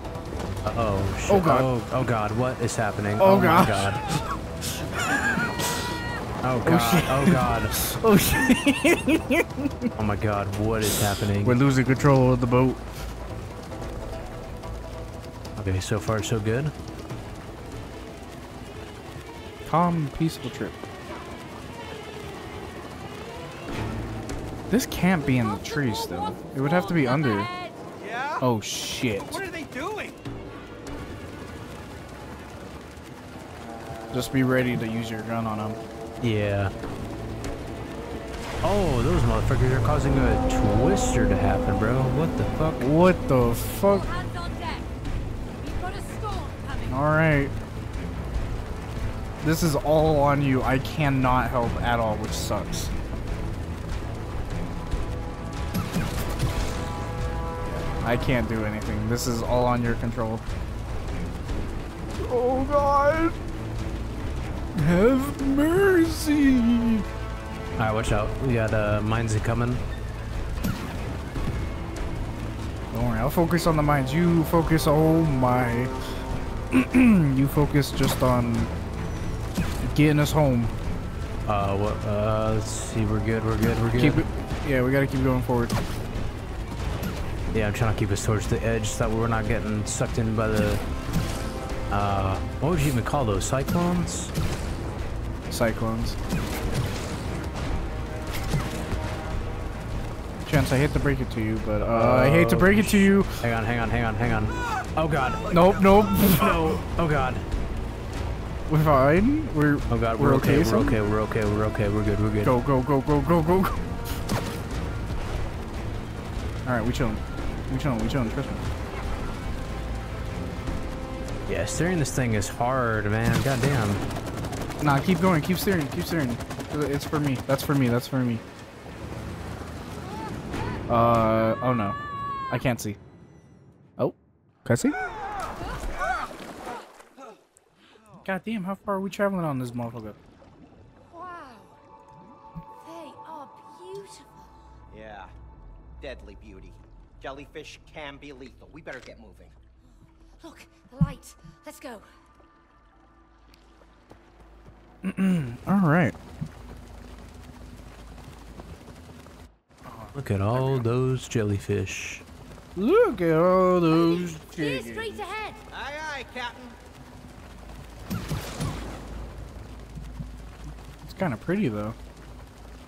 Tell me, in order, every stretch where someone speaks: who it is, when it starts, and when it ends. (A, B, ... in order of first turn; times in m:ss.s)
0:00.6-0:04.0 A
0:01.3-0:01.7 B
0:03.2-0:05.8 B
0:06.4-0:07.8 A
0:06.6-0:09.9 B
0:10.0-0:11.6 A
0:11.3-0:12.8 B
0:15.6-0:16.7 A
0:19.6-0:20.8 B
0:24.7-0:27.5 B
0:25.3-0:27.8 C
0:28.0-0:28.4 D
0:28.4-0:29.4 B
0:29.1-0:30.2 D
0:34.1-0:35.8 B
0:36.2-0:36.7 A
0:38.6-0:42.9 A
0:42.8-0:44.1 B
0:43.7-0:44.9 C
0:45.6-0:47.0 C
0:46.9-0:47.5 B
0:49.4-0:52.9 B
0:58.0-1:00.4 B
1:02.2-1:03.4 B
1:04.7-1:07.0 B
1:07.8-1:09.8 A
1:12.9-1:15.9 B
1:16.7-1:18.7 B
1:19.8-1:20.7 B
1:21.4-1:24.2 A
1:23.9-1:25.7 B
1:27.5-1:30.8 A
1:31.9-1:34.3 A
1:35.5-1:36.2 B
1:40.4-1:43.4 B
1:41.9-1:47.4 A
1:45.5-1:46.9 B
1:48.7-1:51.0 B
1:49.9-1:52.6 A
1:52.4-1:53.8 B
1:56.6-1:58.7 B
2:01.5-2:04.0 A
2:04.8-2:08.4 B
2:10.0-2:10.8 C
2:10.9-2:12.0 B
2:12.5-2:13.0 B
2:14.0-2:15.0 B
2:15.6-2:16.3 C
2:17.9-2:18.2 D
2:18.2-2:20.2 B
2:21.1-2:21.8 C
2:22.8-2:24.6 C
2:24.9-2:25.3 D
2:26.0-2:29.5 D
2:30.4-2:32.1 C
2:35.0-2:36.2 B
2:39.8-2:40.9 B
2:40.1-2:42.2 A
2:42.8-2:45.3 B
2:43.9-2:45.6 C
2:45.7-2:46.8 D
2:51.0-2:52.0 B